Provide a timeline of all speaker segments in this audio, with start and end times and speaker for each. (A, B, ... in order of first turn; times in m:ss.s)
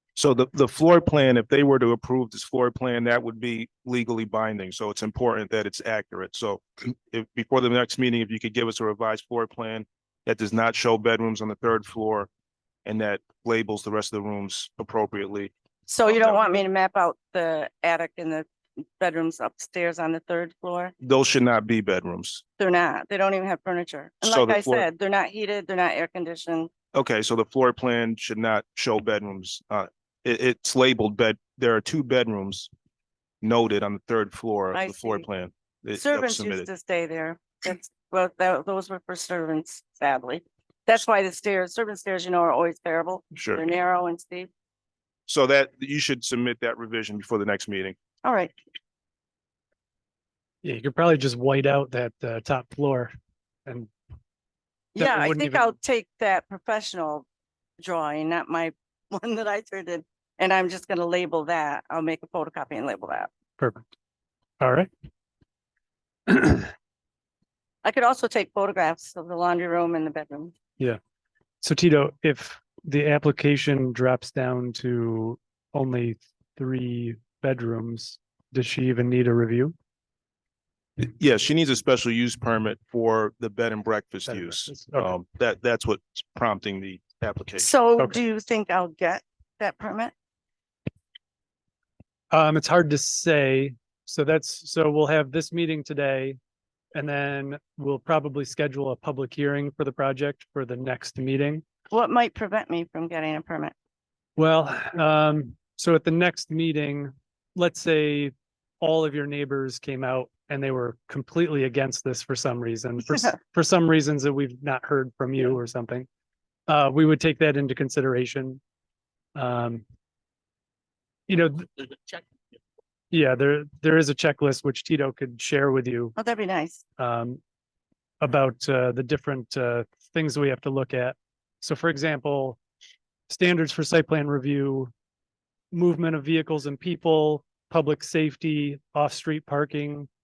0:00.2-0:12.3 A
0:12.8-0:15.5 A
0:15.9-0:18.5 B
0:16.1-0:16.4 A
0:19.0-0:20.9 B
0:21.0-0:22.4 A
0:22.6-0:26.7 B
0:24.2-0:24.9 A
0:26.9-0:32.7 A
0:33.4-0:36.7 A
0:34.7-0:35.2 B
0:36.0-0:44.5 B
0:43.3-0:43.6 A
0:45.3-0:48.0 A
0:48.2-0:48.5 B
0:50.6-0:53.1 C
0:54.9-0:57.2 B
0:55.0-0:55.6 C
0:57.8-1:03.3 B
1:03.6-1:03.9 C
1:04.6-1:04.9 C
1:06.3-1:06.7 C
1:07.8-1:10.5 B
1:11.6-1:19.7 C
1:21.0-1:27.7 A
1:24.3-1:25.1 C
1:27.6-1:30.1 B
1:32.3-1:36.4 C
1:36.9-1:41.6 C
1:41.9-1:43.7 B
1:44.4-1:56.1 C
1:56.7-1:58.6 C
1:59.3-1:59.8 C
2:01.3-2:01.8 C
2:03.1-2:06.1 C
2:06.2-2:06.8 B
2:07.0-2:07.4 C
2:08.2-2:12.6 C
2:13.3-2:14.9 C
2:15.7-2:20.1 C